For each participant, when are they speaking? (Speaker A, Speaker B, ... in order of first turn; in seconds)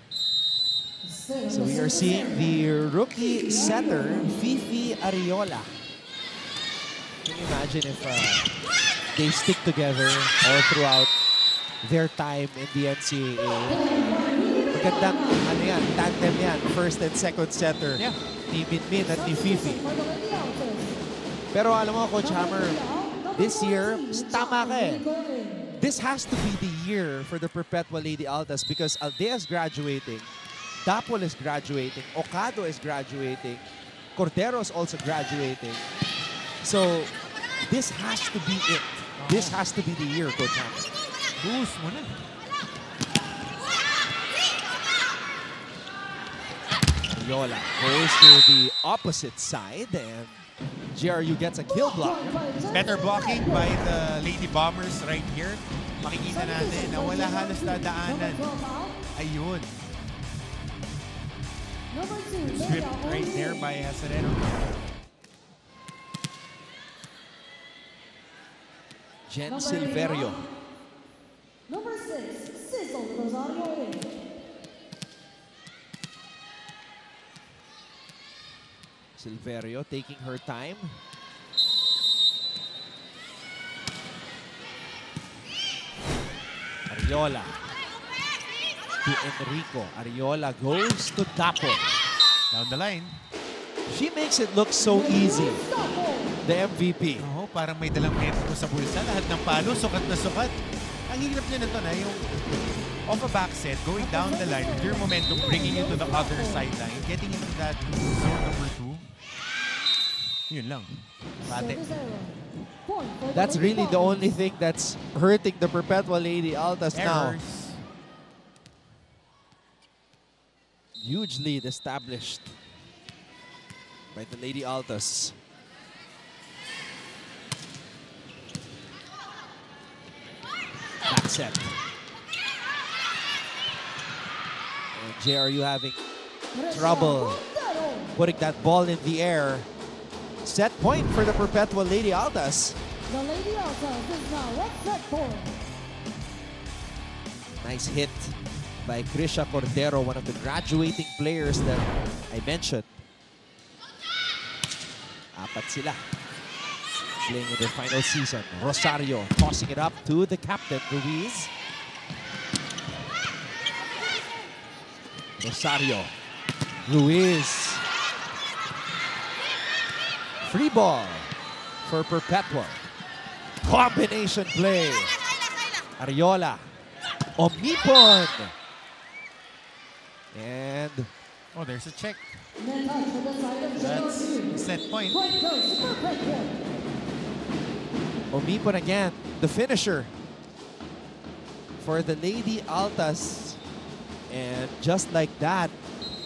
Speaker A: 1.0-4.3, 13.7-15.5, 19.1-21.0, 22.2-25.7, 51.7-53.8, 56.3-59.0, 61.9-63.7, 69.5-70.4, 71.7-74.1, 94.8-96.4, 104.0-106.7, 111.4-114.2, 136.5-138.1, 143.1-145.6, 182.6-186.6
Speaker B: 1.5-5.8, 7.2-8.5, 9.1-11.1, 11.8-13.9, 14.7-19.8, 21.5-22.8, 23.3-25.0, 25.8-30.3, 30.8-35.9, 36.6-40.9, 47.1-52.3, 69.3-70.4, 79.2-81.0, 86.9-87.5, 89.0-92.0, 93.9-95.6, 96.4-97.3, 113.3-117.4, 121.0-122.6, 124.1-125.4, 131.1-131.8, 134.9-136.0, 136.7-137.4, 138.2-139.7, 140.4-142.8, 147.6-152.9, 155.3-156.0, 157.2-161.5, 165.4-166.1, 166.8-167.8, 170.4-172.9, 173.6-175.1, 176.0-176.7, 177.4-178.5, 180.3-181.1, 188.3-190.2, 191.8-193.6, 194.3-195.8
Speaker C: 39.2-39.6, 41.4-42.2, 52.3-58.5, 59.1-59.9, 62.4-64.6, 92.5-93.2, 97.2-100.5, 101.1-102.4, 103.1-109.1, 110.5-111.8, 116.9-117.8, 181.5-182.2, 183.8-185.2